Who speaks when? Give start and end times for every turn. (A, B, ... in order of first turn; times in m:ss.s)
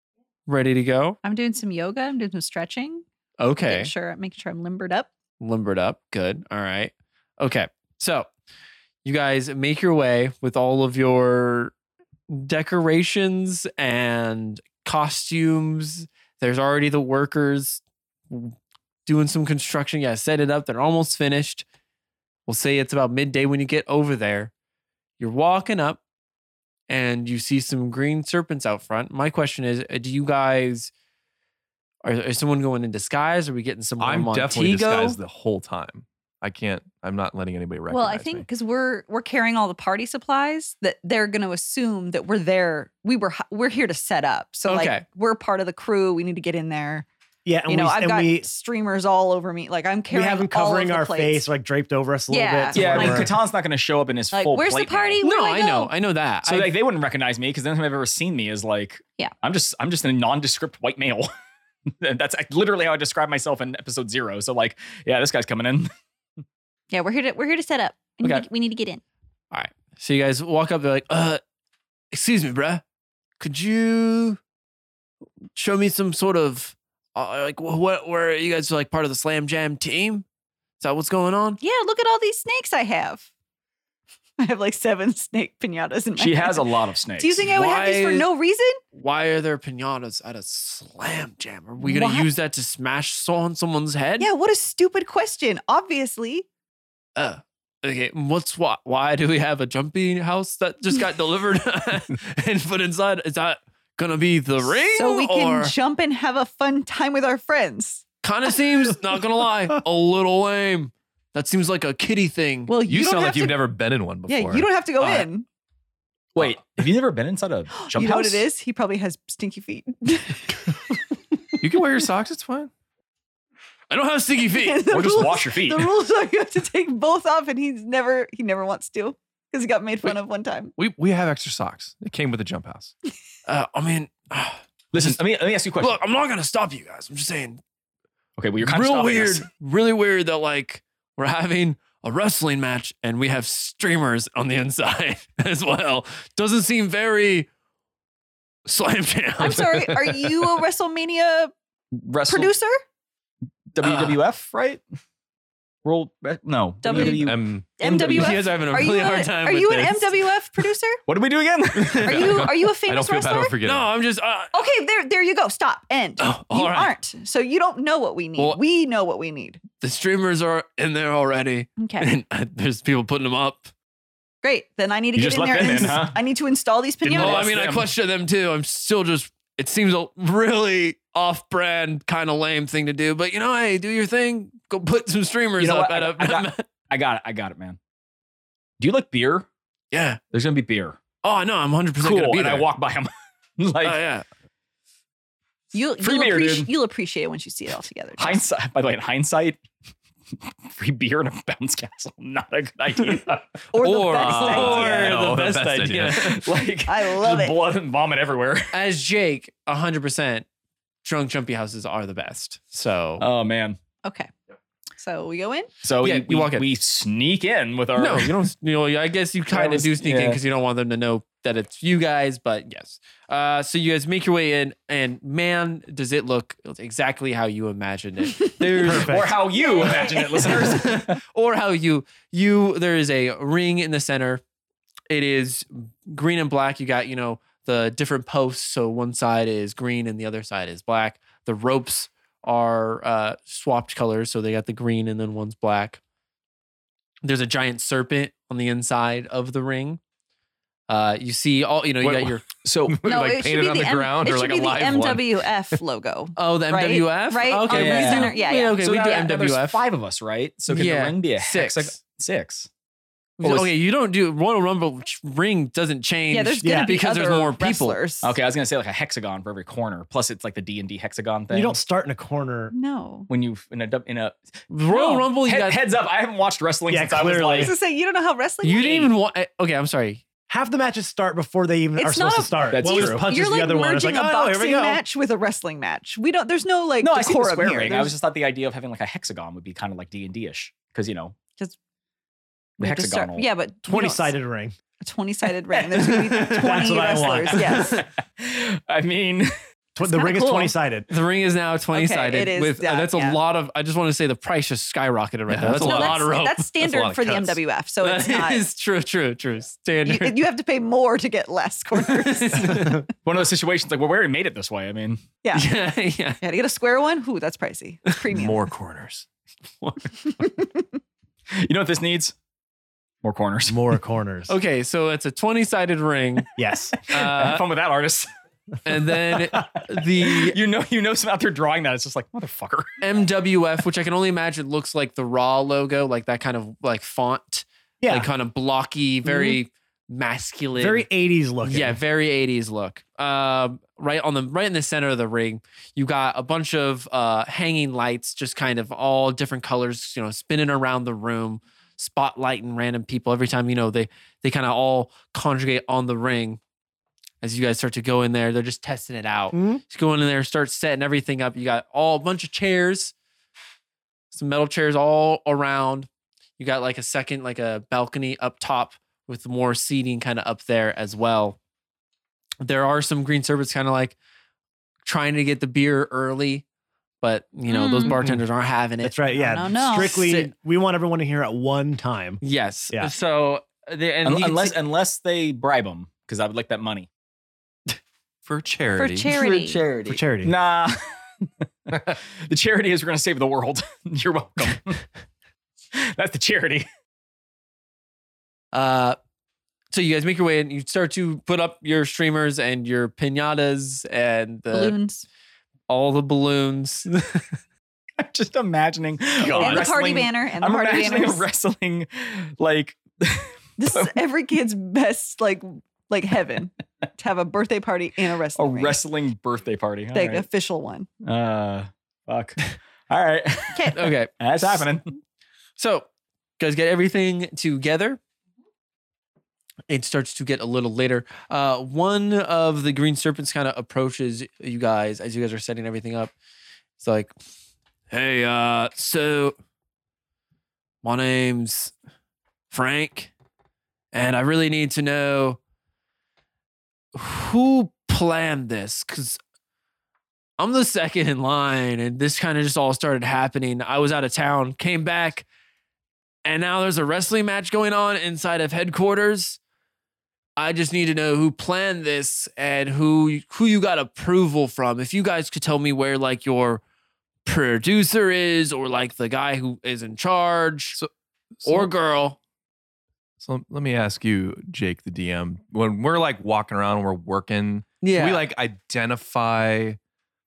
0:00.4-0:01.2 A
0:01.2-0:03.0 B
0:03.4-0:03.9 A
0:03.6-0:05.1 B
0:05.4-0:08.3 A
0:09.0-0:11.7 A
0:12.3-0:21.6 A
0:22.5-0:24.5 A
0:25.2-0:26.0 A
0:26.9-0:30.9 A
0:32.0-0:35.2 A
0:34.0-0:38.4 C
0:37.9-0:47.1 B
0:44.7-0:45.0 A
0:47.4-0:48.5 D
0:47.7-0:51.4 B
0:50.1-0:53.4 D
0:52.3-0:53.3 B
0:52.7-0:55.2 E
0:54.3-0:55.9 B
0:55.2-0:56.8 A
0:56.4-1:01.3 E
1:01.9-1:05.9 E
1:06.9-1:09.0 B
1:08.2-1:08.4 A
1:09.5-1:11.4 A
1:12.1-1:12.8 A
1:13.4-1:14.4 A
1:15.6-1:20.2 A
1:20.8-1:21.6 A
1:21.6-1:23.3 B
1:24.4-1:26.6 B
1:26.2-1:27.5 E
1:27.2-1:28.8 B
1:27.4-1:28.3 A
1:28.9-1:34.3 A
1:31.8-1:32.3 B
1:34.2-1:36.4 B
1:37.2-1:45.8 A
1:44.9-1:48.0 B
1:48.2-1:52.7 A
1:52.7-1:53.7 B
1:52.8-1:54.7 C
1:54.3-1:55.4 B
1:55.0-1:55.2 A
1:56.4-1:58.4 E
1:57.8-2:00.8 B
2:01.6-2:02.7 C
2:03.9-2:05.2 A
2:04.5-2:10.8 B
2:04.9-2:05.9 E
2:10.8-2:12.9 C
2:13.4-2:15.2 A
2:14.9-2:16.0 E
2:15.8-2:17.6 A
2:18.4-2:19.5 E
2:18.6-2:27.5 A
2:28.7-2:29.7 A
2:29.4-2:31.5 B
2:29.5-2:30.5 C
2:31.9-2:32.5 E
2:32.3-2:32.8 B
2:33.7-2:34.8 E
2:33.8-2:34.2 A
2:35.8-2:38.4 E
2:36.8-2:41.0 B
2:36.9-2:37.9 C
2:38.1-2:40.3 A
2:41.1-2:42.4 E
2:41.8-2:42.4 A
2:42.0-2:43.5 B
2:42.1-2:43.9 C
2:43.6-2:44.5 A
2:44.5-2:49.6 B
2:46.2-2:46.9 A
2:49.8-2:53.7 A
2:51.8-2:52.1 B
2:54.4-2:57.5 B
2:55.2-2:56.2 E
2:57.0-2:57.9 E
2:57.1-3:06.6 A
3:05.6-3:07.8 E
3:08.8-3:09.5 E
3:09.9-3:10.2 A
3:10.3-3:11.0 E
3:11.2-3:12.7 A
3:12.0-3:14.0 E
3:13.8-3:14.3 A
3:15.7-3:18.4 B
3:16.0-3:16.7 E
3:18.2-3:19.6 E
3:20.7-3:23.6 E
3:23.7-3:25.2 B
3:23.8-3:26.4 C
3:24.2-3:28.7 E
3:24.3-3:25.5 A
3:26.8-3:27.6 B
3:28.7-3:30.4 A
3:31.0-3:33.2 A
3:33.2-3:33.8 E
3:34.0-3:34.3 B
3:35.0-3:35.7 B
3:35.8-3:38.4 E
3:36.0-3:36.7 A
3:38.0-3:49.3 A
3:39.5-3:40.4 E
3:48.8-3:49.3 D
3:48.8-3:51.2 E
3:49.5-3:50.7 B
3:50.4-3:54.4 A
3:55.1-4:06.0 A
4:07.2-4:10.0 A
4:10.9-4:12.4 A
4:12.0-4:15.5 C
4:12.6-4:13.0 E
4:13.0-4:18.8 B
4:16.4-4:19.8 A
4:17.7-4:22.7 E
4:20.7-4:22.0 A
4:23.4-4:28.0 A
4:23.4-4:23.7 E
4:26.3-4:28.3 B
4:26.6-4:26.9 D
4:28.2-4:31.8 E
4:31.5-4:32.7 D
4:32.7-4:33.3 B
4:33.3-4:34.4 E
4:34.7-4:35.8 A
4:34.9-4:37.7 E
4:36.9-4:37.7 D
4:37.6-4:39.1 B
4:38.6-4:40.2 A
4:40.5-4:45.0 D
4:42.0-4:48.1 B
4:42.7-4:43.3 E
4:47.0-4:51.3 E
4:52.8-4:54.3 B
4:52.8-4:53.5 E
4:53.8-4:54.8 D
4:55.0-4:58.0 B
4:56.0-4:58.1 A
4:56.6-4:57.8 D
4:57.9-4:59.5 E
4:59.9-5:01.1 D
5:00.0-5:00.7 B
5:01.1-5:06.7 A
5:01.9-5:03.4 B
5:05.5-5:07.6 C
5:05.8-5:08.6 B
5:08.0-5:10.4 A
5:10.0-5:13.1 B
5:11.9-5:13.1 A
5:13.2-5:15.2 E
5:15.4-5:15.8 B
5:15.5-5:16.4 A
5:16.4-5:18.7 B
5:18.3-5:19.2 C
5:19.8-5:20.1 A
5:20.2-5:20.9 B
5:21.6-5:22.3 E
5:23.2-5:23.8 E
5:23.7-5:24.5 D
5:24.5-5:26.5 A
5:26.6-5:26.9 D
5:27.1-5:27.6 A
5:27.1-5:28.3 E
5:28.8-5:30.6 A
5:30.2-5:32.9 E
5:33.0-5:41.1 A
5:38.0-5:38.3 D
5:39.2-5:39.6 D
5:40.8-5:42.0 D
5:41.6-5:56.6 A
5:57.4-6:03.1 A
5:59.5-5:59.8 D
6:04.3-6:11.6 A
6:12.6-6:14.2 A
6:15.0-6:16.6 A
6:17.2-6:19.2 A
6:17.7-6:18.2 B
6:19.0-6:23.1 D
6:19.4-6:20.2 B
6:19.9-6:20.5 A
6:22.4-6:24.8 A
6:24.2-6:27.1 E
6:28.4-6:29.3 C
6:29.0-6:29.8 B
6:29.3-6:30.2 A
6:30.1-6:30.5 D
6:30.4-6:31.0 E
6:32.4-6:35.0 E
6:35.9-6:36.9 E
6:38.7-6:39.2 A
6:39.9-6:45.0 A
6:44.7-6:45.2 B
6:45.9-6:47.5 A
6:48.2-6:54.2 E
6:49.4-6:49.9 C
6:49.5-6:51.5 B
6:53.8-6:59.0 B
6:58.6-7:00.4 E
7:00.1-7:01.1 B
7:01.2-7:05.1 E
7:03.7-7:04.1 B
7:03.9-7:04.9 A
7:05.8-7:06.1 A
7:06.6-7:08.2 A
7:09.9-7:16.3 A
7:17.0-7:17.3 A
7:18.1-7:19.6 A
7:21.0-7:21.9 A
7:22.7-7:23.3 A
7:24.1-7:25.6 A
7:27.2-7:29.4 A
7:30.6-7:35.5 A
7:36.4-7:39.6 A
7:40.6-7:46.8 A
7:47.4-7:51.0 A
7:50.9-7:51.9 C
7:51.6-7:52.4 A
7:53.4-8:00.0 C
7:58.0-7:58.5 A